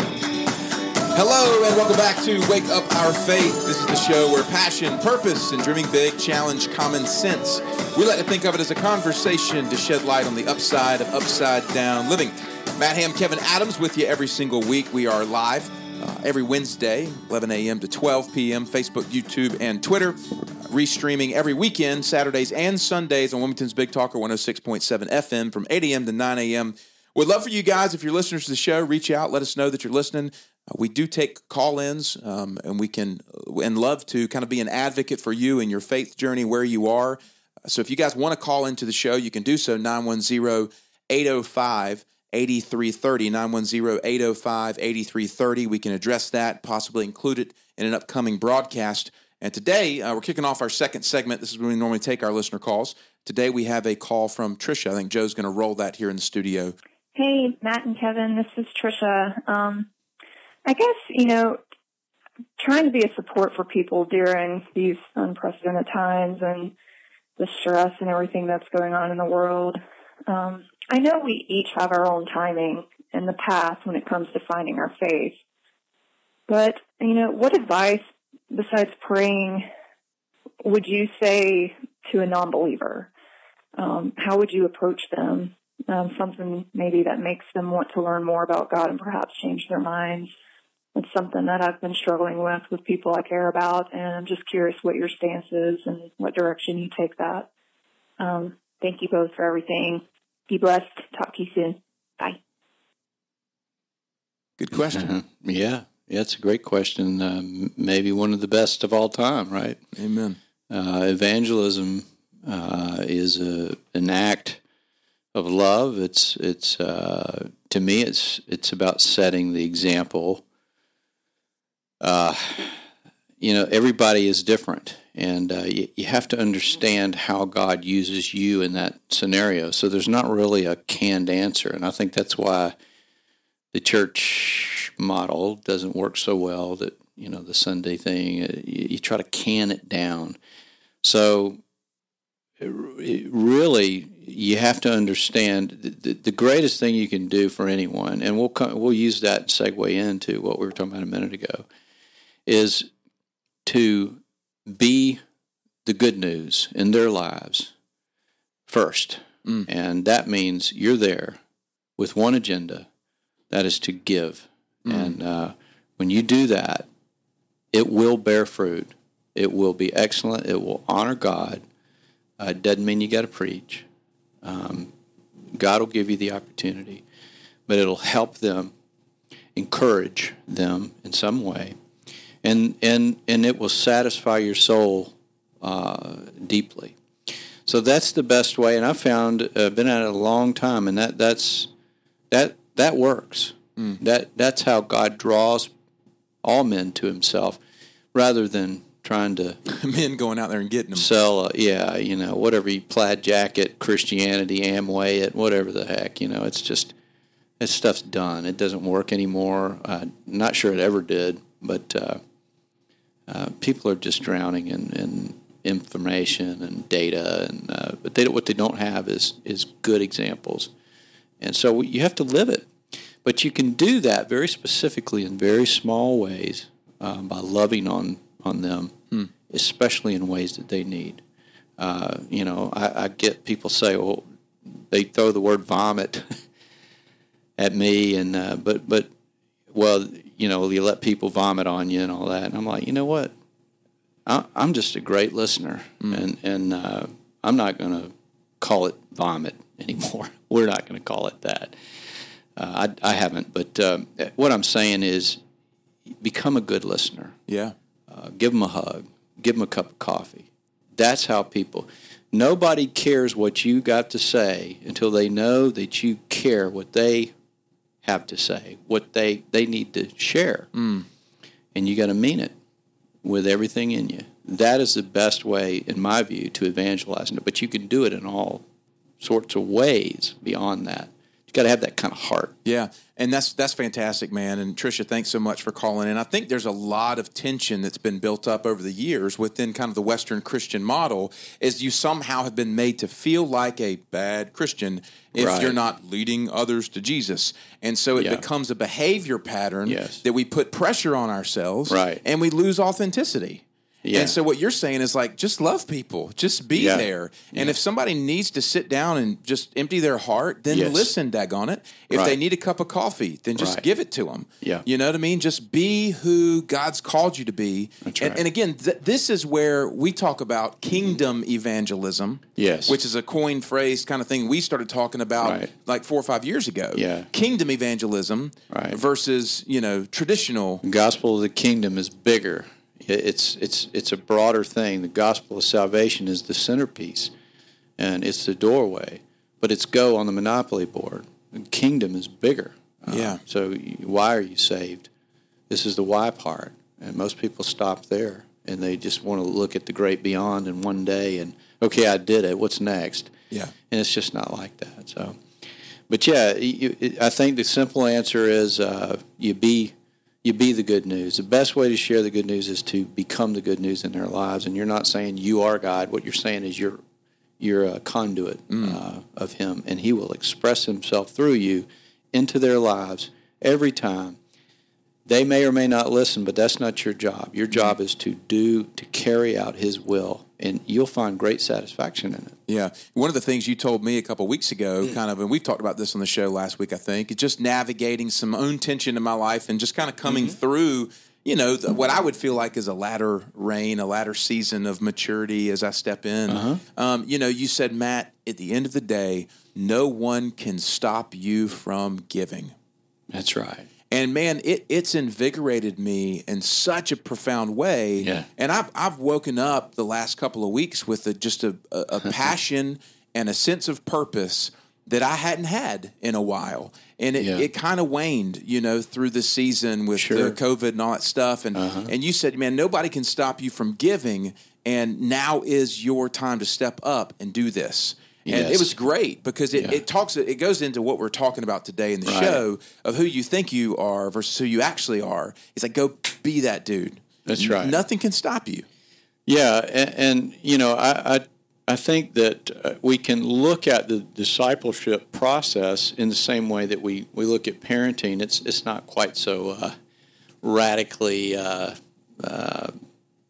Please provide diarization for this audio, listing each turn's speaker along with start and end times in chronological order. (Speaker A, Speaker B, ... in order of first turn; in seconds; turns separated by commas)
Speaker A: 1.1-56.7, Speaker B: 57.1-59.9, Speaker B: 60.6-61.6, Speaker B: 62.6-66.7, Speaker B: 67.4-75.4, Speaker B: 76.5-79.7, Speaker B: 80.6-83.1, Speaker B: 83.8-90.3, Speaker B: 90.9-97.5, Speaker B: 98.2-102.4, Speaker A: 104.6-105.1, Speaker C: 104.9-109.8, Speaker A: 109.9-110.4, Speaker C: 110.7-114.6, Speaker C: 115.3-120.4, Speaker C: 122.0-122.8, Speaker C: 123.4-132.7, Speaker C: 133.7-140.4, Speaker C: 141.0-141.6, Speaker C: 142.6-151.6, Speaker C: 152.5-152.9, Speaker C: 153.7-155.2, Speaker C: 155.8-157.7, Speaker C: 158.7-161.4, Speaker C: 162.0-162.9, Speaker C: 163.5-166.8, Speaker A: 164.8-165.2, Speaker C: 167.7-171.6, Speaker C: 172.4-173.8, Speaker C: 174.4-174.9, Speaker C: 175.5-177.0, Speaker C: 177.7-178.7, Speaker C: 179.5-181.7, Speaker C: 182.4-186.9, Speaker C: 187.7-191.7, Speaker C: 192.3-195.7, Speaker C: 196.4-197.6, Speaker C: 198.1-199.6, Speaker A: 199.7-201.1, Speaker C: 200.9-206.9, Speaker C: 207.6-212.2, Speaker C: 213.3-220.7, Speaker C: 221.4-222.7, Speaker C: 223.2-231.2, Speaker C: 231.8-234.2, Speaker C: 234.9-236.4, Speaker C: 237.6-239.1, Speaker C: 239.7-243.3, Speaker C: 244.2-251.7, Speaker C: 252.6-255.4, Speaker C: 256.2-257.4, Speaker A: 257.5-257.8, Speaker C: 258.1-267.3, Speaker C: 268.0-270.7, Speaker A: 270.7-271.1, Speaker C: 271.7-272.5, Speaker C: 273.2-278.6, Speaker C: 279.2-282.5, Speaker A: 282.6-330.8, Speaker C: 295.3-295.7, Speaker C: 298.2-298.4, Speaker C: 299.9-300.2, Speaker C: 301.9-302.2, Speaker C: 304.0-304.4, Speaker C: 306.8-307.8, Speaker C: 310.7-311.1, Speaker C: 312.1-312.4, Speaker C: 313.6-313.8, Speaker C: 318.0-318.4, Speaker C: 322.6-323.0, Speaker C: 325.4-325.7, Speaker C: 326.9-327.3, Speaker C: 328.7-329.0, Speaker C: 330.8-337.3, Speaker C: 338.0-345.1, Speaker A: 343.1-343.4, Speaker C: 345.7-353.3, Speaker C: 353.9-355.4, Speaker C: 356.1-367.0, Speaker C: 367.6-374.4, Speaker A: 368.7-369.0, Speaker C: 375.2-382.6, Speaker A: 382.7-402.7, Speaker C: 396.5-396.8, Speaker C: 403.3-403.9, Speaker A: 404.1-438.8, Speaker C: 408.2-408.5, Speaker C: 417.4-417.7, Speaker C: 420.1-420.6, Speaker C: 421.7-422.1, Speaker C: 428.4-428.9, Speaker C: 432.2-432.6, Speaker C: 437.4-438.0, Speaker C: 439.5-449.9, Speaker C: 450.6-452.9